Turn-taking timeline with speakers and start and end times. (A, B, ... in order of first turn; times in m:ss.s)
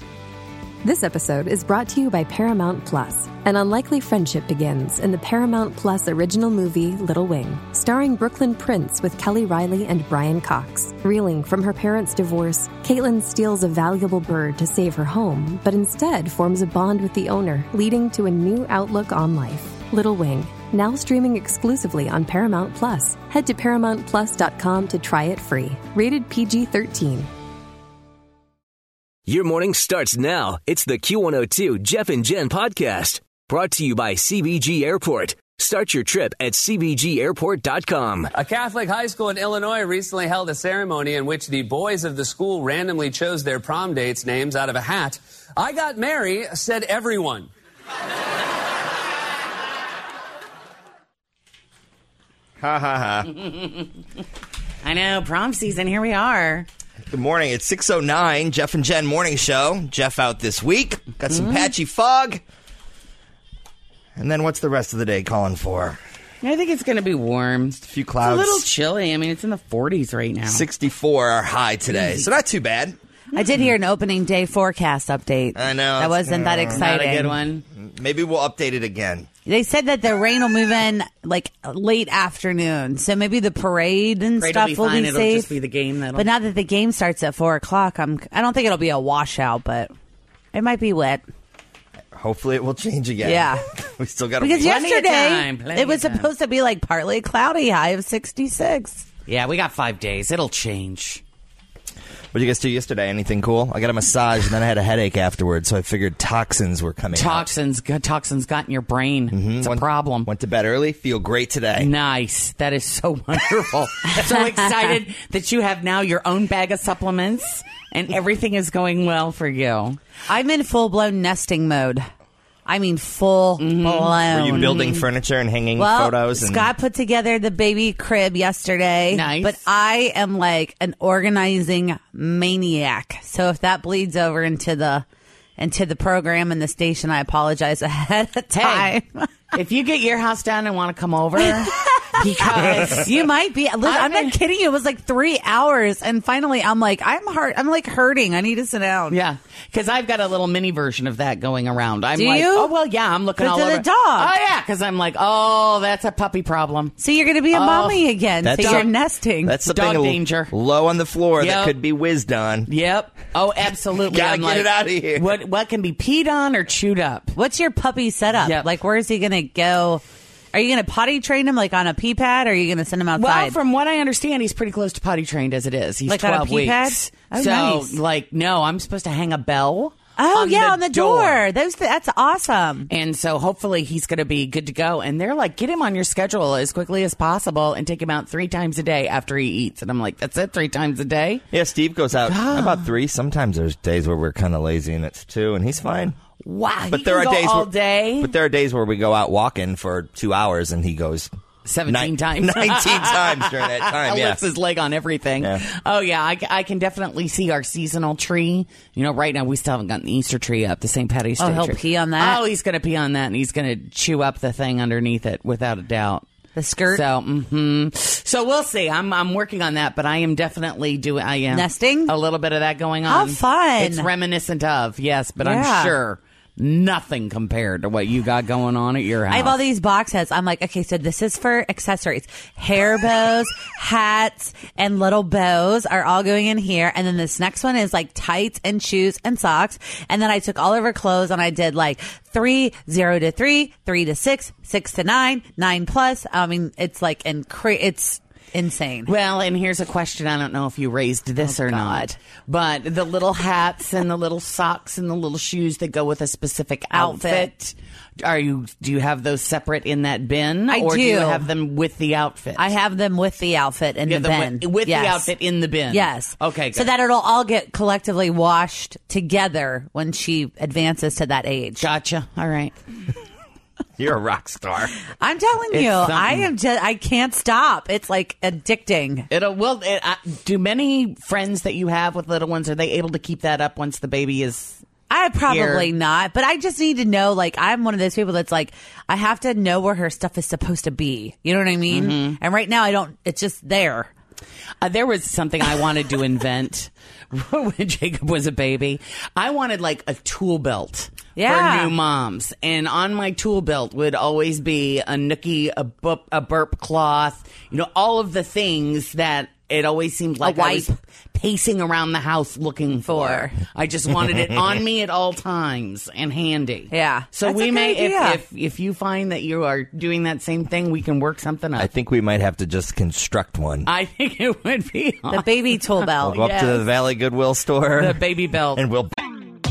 0:00.8-0:27.3 A
0:29.3-0:38.3 B
0:38.4-0:47.5 C
0:52.6-0:53.3 D
0:53.4-0:53.9 E
0:54.8-0:56.7 E
0:57.1-1:02.4 D
1:01.3-1:01.7 E
1:04.2-1:06.0 D
1:06.4-1:10.6 E
1:07.8-1:08.6 D
1:10.4-1:13.0 D
1:11.9-1:12.3 E
1:13.3-1:17.4 F
1:13.4-1:13.7 E
1:15.6-1:16.8 D
1:16.7-1:17.6 E
1:17.8-1:19.3 D
1:19.5-1:25.5 F
1:24.4-1:26.3 E
1:26.2-1:29.9 F
1:30.5-1:31.2 F
1:32.2-1:34.8 D
1:33.2-1:33.6 F
1:34.4-1:39.1 F
1:34.6-1:36.3 E
1:39.3-1:41.2 E
1:42.3-1:47.5 D
1:47.1-1:50.3 E
1:49.3-1:51.9 D
1:51.8-2:00.0 E
2:00.3-2:02.1 F
2:02.7-2:04.9 F
2:03.6-2:05.0 E
2:04.3-2:06.7 D
2:05.8-2:15.0 F
2:09.1-2:09.6 E
2:15.6-2:19.3 F
2:18.6-2:19.0 E
2:19.5-2:23.3 E
2:22.7-2:29.2 F
2:23.8-2:24.4 E
2:29.1-2:37.0 E
2:32.2-2:32.7 F
2:33.4-2:34.3 F
2:37.0-2:39.6 F
2:37.5-2:38.9 E
2:38.4-2:38.9 D
2:39.4-2:42.7 D
2:39.6-2:40.5 E
2:41.4-2:41.8 E
2:42.7-2:47.4 E
2:43.9-2:45.3 D
2:47.4-2:53.6 F
2:48.4-2:48.7 E
2:53.2-3:01.4 E
2:56.1-2:58.0 F
3:00.2-3:02.9 F
3:02.9-3:11.5 E
3:11.5-3:16.2 D
3:12.2-3:12.9 E
3:16.4-3:18.3 E
3:16.9-3:21.3 D
3:21.7-3:36.2 E
3:21.8-3:24.4 D
3:31.4-3:32.4 F
3:36.6-3:37.0 F
3:36.9-3:49.6 E
3:41.5-3:42.1 F
3:43.0-3:44.1 F
3:45.4-3:46.0 F
3:49.3-4:09.1 F
4:09.1-4:22.7 E
4:11.4-4:12.1 F
4:16.9-4:17.5 F
4:20.7-4:21.5 F
4:22.6-4:25.3 F
4:24.1-4:26.9 E
4:25.9-4:31.9 F
4:31.8-4:32.7 E
4:34.0-4:34.9 D
4:35.2-4:39.3 F
4:35.7-4:36.5 E
4:39.3-4:44.8 E
4:45.1-4:54.1 F
4:45.5-4:45.9 E
4:51.9-4:52.4 E
4:54.8-5:21.9 E
5:01.4-5:01.9 F
5:10.4-5:10.9 F
5:13.1-5:13.6 F
5:16.9-5:18.4 F
5:21.8-5:23.9 D
5:23.8-5:26.8 E
5:25.3-5:26.5 F
5:26.2-5:28.2 D
5:28.0-5:28.8 E
5:28.7-5:29.1 D